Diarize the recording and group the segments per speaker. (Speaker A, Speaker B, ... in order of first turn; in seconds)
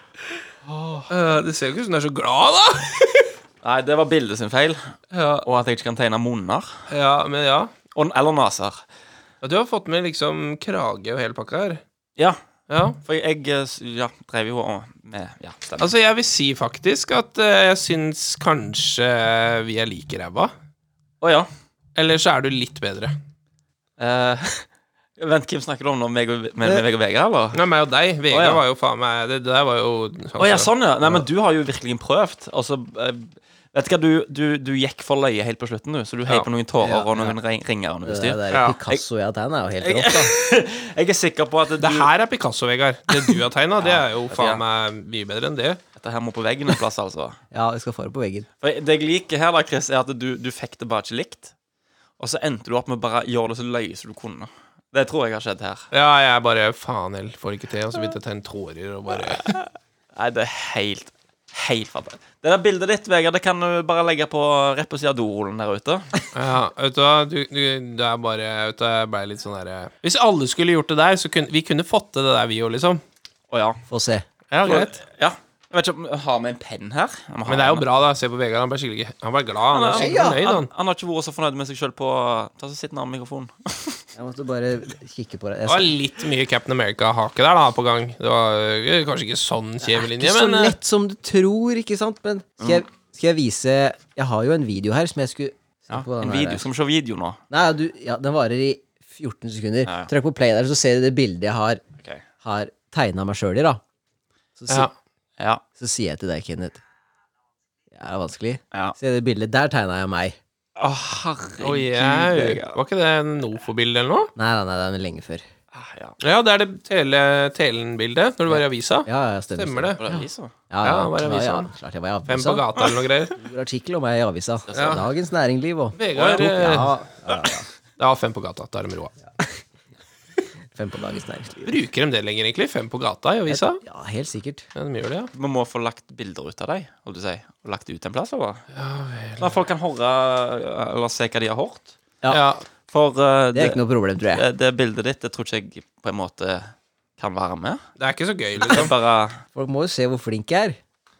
Speaker A: 0.7-1.1, 3.6-6.8, 7.9-8.8, 13.0-15.9, 21.2-21.5, 24.0-24.6, 25.2-27.6, 28.3-28.6, 30.4-39.0, 39.8-42.1, 43.8-44.6, 46.0-47.4, 48.6-51.5, 52.2-55.9, 59.4-66.1, 73.5-73.8, 74.5-77.8, 79.7-84.0, 95.9-97.4, 99.8-100.1, 105.4-105.6, 110.8-112.8, 115.7-116.2, 120.0-120.5, 124.7-125.0, 126.1-126.5, 135.3-138.6, 139.4-141.9, 142.9-143.8, 144.3-147.8, 148.6-149.4
Speaker B: 1.1-3.3, 5.1-5.5, 6.9-7.7, 9.4-11.8, 12.7-13.0, 15.8-20.5, 21.9-23.1, 27.5-30.7, 38.5-38.8, 41.8-45.8, 55.9-59.6, 66.3-73.0, 74.6-74.9, 77.5-80.7, 85.7-90.8, 111.6-114.3, 116.2-120.0, 120.8-121.7, 122.3-123.4, 124.7-125.0, 126.0-126.9, 128.0-129.2, 131.7-133.8, 134.7-135.3, 138.7-139.5, 142.3-142.6, 148.0-148.9
Speaker C: 36.8-37.3, 38.0-40.3, 47.5-48.5, 73.9-74.2, 79.9-80.4, 84.2-85.9, 89.8-96.6, 97.5-101.8, 102.4-103.8, 104.6-104.9, 105.8-106.8, 107.9-110.4, 114.3-115.4, 118.5-122.6, 123.3-127.7, 130.7-131.7, 133.5-134.6, 143.5-144.4, 149.5-150.8